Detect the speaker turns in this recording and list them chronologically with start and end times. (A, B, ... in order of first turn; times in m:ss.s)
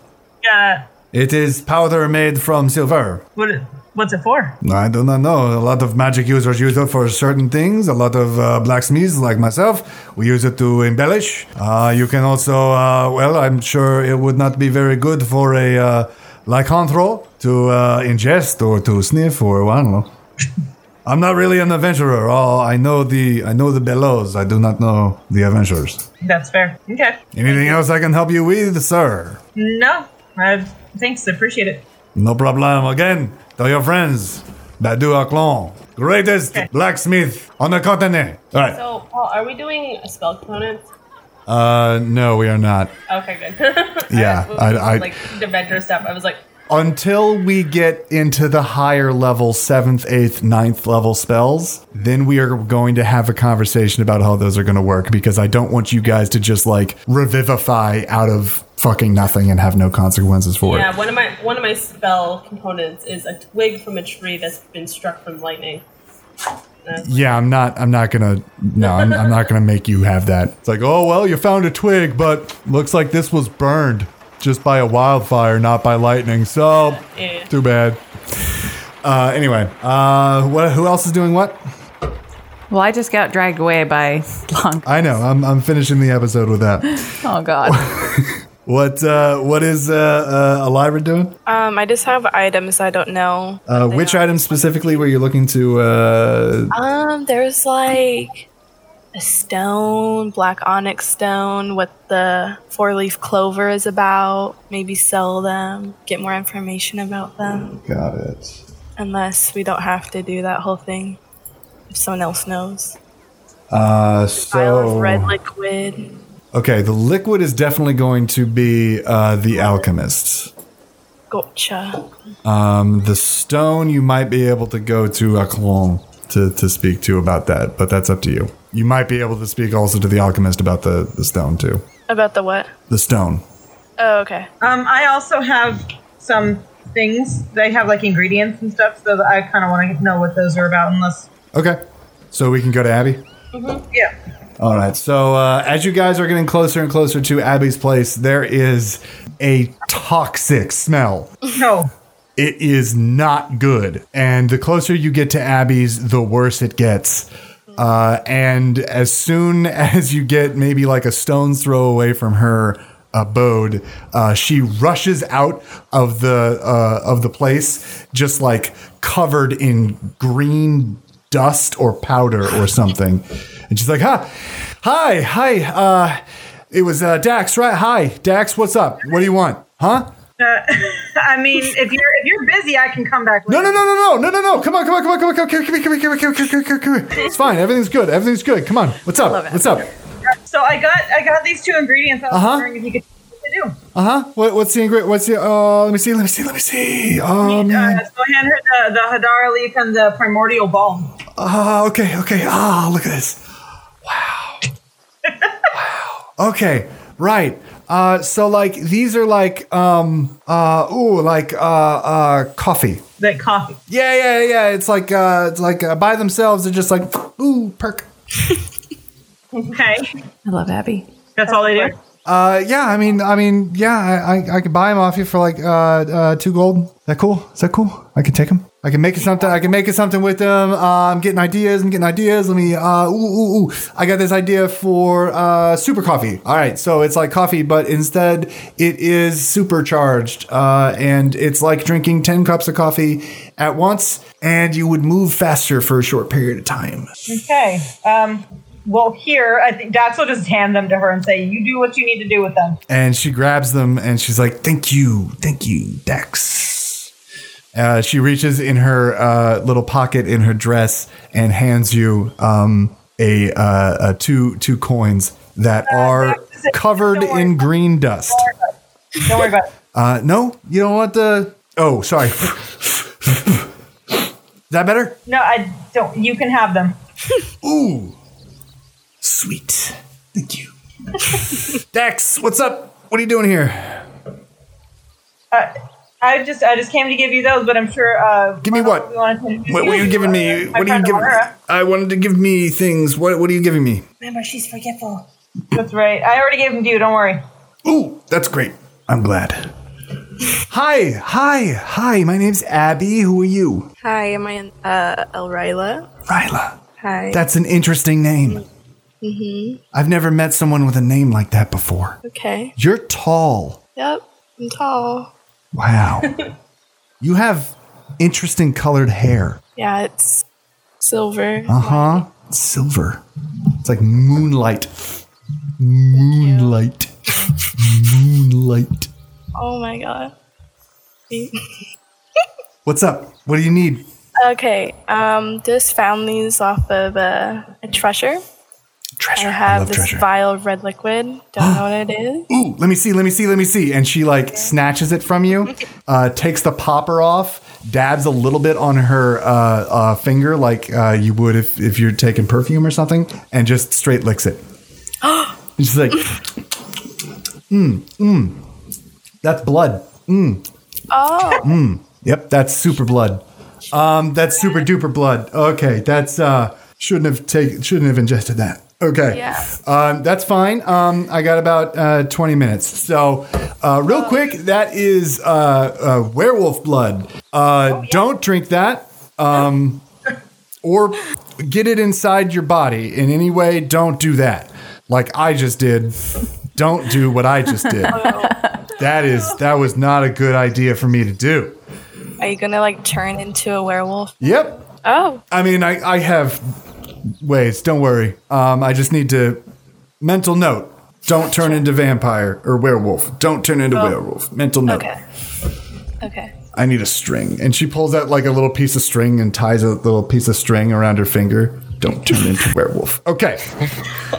0:00.4-0:00.9 A
0:01.1-0:03.2 B
0:03.4-0:04.6 A
0:04.6-0:20.1 B
0:21.0-0:26.0 B
0:26.2-0:27.8 A
0:27.3-0:29.4 B
0:29.6-0:31.8 A
0:32.2-0:38.8 B
0:38.6-0:40.9 C
0:41.5-0:42.9 B
0:43.1-0:46.4 C
0:44.1-0:45.1 B
0:46.7-1:01.0 B
1:00.6-1:05.9 C
1:06.8-1:07.4 C
1:07.0-1:21.6 B
1:08.8-1:09.4 C
1:16.9-1:17.5 C
1:22.7-1:24.9 D
1:24.8-1:27.1 B
1:27.0-1:27.9 D
1:27.6-1:31.4 B
1:31.5-1:35.0 E
1:33.7-1:36.7 B
1:36.7-1:38.5 E
1:39.1-1:47.8 E
1:47.8-1:48.6 B
1:49.0-1:51.2 E
1:51.9-1:53.0 E
1:53.7-1:55.4 B
1:54.4-1:56.2 E
1:56.5-2:00.5 B
2:01.3-2:02.1 E
2:02.4-2:11.9 B
2:12.1-2:12.7 E
2:12.9-2:13.4 B
2:14.0-2:14.5 E
2:14.6-2:21.3 A
2:21.5-2:21.8 B
2:22.3-2:23.2 B
2:23.5-2:23.8 C
2:24.6-2:31.3 B
2:31.5-2:31.9 A
2:32.4-3:00.1 B
3:00.4-3:03.8 A
3:03.5-3:09.9 B
3:09.2-3:09.7 D
3:10.4-3:13.8 A
3:12.3-3:12.7 B
3:13.9-3:18.0 B
3:17.4-3:21.2 A
3:21.4-3:23.4 B
3:24.0-3:24.6 B
3:25.3-3:25.5 A
3:25.7-3:33.1 B
3:33.2-3:33.8 A
3:33.9-3:38.1 B
3:39.7-3:40.1 A
3:40.5-3:41.1 D
3:41.4-3:42.0 A
3:41.5-3:41.9 E
3:42.2-4:07.4 B
4:07.3-4:12.8 A
4:12.9-4:17.1 B
4:17.7-4:28.5 B
4:25.8-4:27.7 A
4:29.2-4:29.7 A
4:29.9-4:33.7 B
4:34.7-4:35.2 B
4:35.3-4:37.0 A
4:37.6-4:38.2 B
4:39.2-4:44.1 B
4:45.5-4:51.5 A
4:48.6-4:49.1 B
4:49.7-4:54.1 B
4:54.2-4:55.3 C
4:55.7-4:57.4 A
4:57.8-4:59.7 B
5:00.6-5:03.9 B
5:04.0-5:06.2 E
5:06.3-5:08.7 B
5:07.0-5:07.4 E
5:09.2-5:09.8 E
5:09.9-5:12.2 B
5:12.2-5:12.7 E
5:12.8-5:13.8 B
5:14.0-5:15.3 E
5:15.7-5:16.4 B
5:17.2-5:19.6 B
5:19.8-5:20.4 E
5:21.0-5:22.3 E
5:21.7-5:23.2 B
5:23.8-5:25.2 B
5:25.8-5:29.1 B
5:26.2-5:27.5 E
5:29.6-5:30.3 E
5:31.3-5:31.7 E
5:32.8-5:34.1 B
5:34.4-5:38.4 E
5:39.2-5:40.3 B
5:39.4-5:42.5 E
5:42.5-5:54.6 B
5:55.8-5:56.6 B
5:57.7-5:58.6 B
5:59.4-6:00.6 B
6:01.1-6:01.8 E
6:01.6-6:20.0 B
6:09.3-6:09.8 E
6:20.8-6:28.3 B
6:28.1-6:28.6 E
6:28.9-6:31.8 B
6:32.4-6:35.4 E
6:34.4-6:34.8 B
6:35.5-6:36.7 B
6:37.4-6:39.6 B
6:40.2-6:45.1 B
6:44.9-6:45.2 E
6:46.2-6:46.6 E
6:46.7-6:53.8 B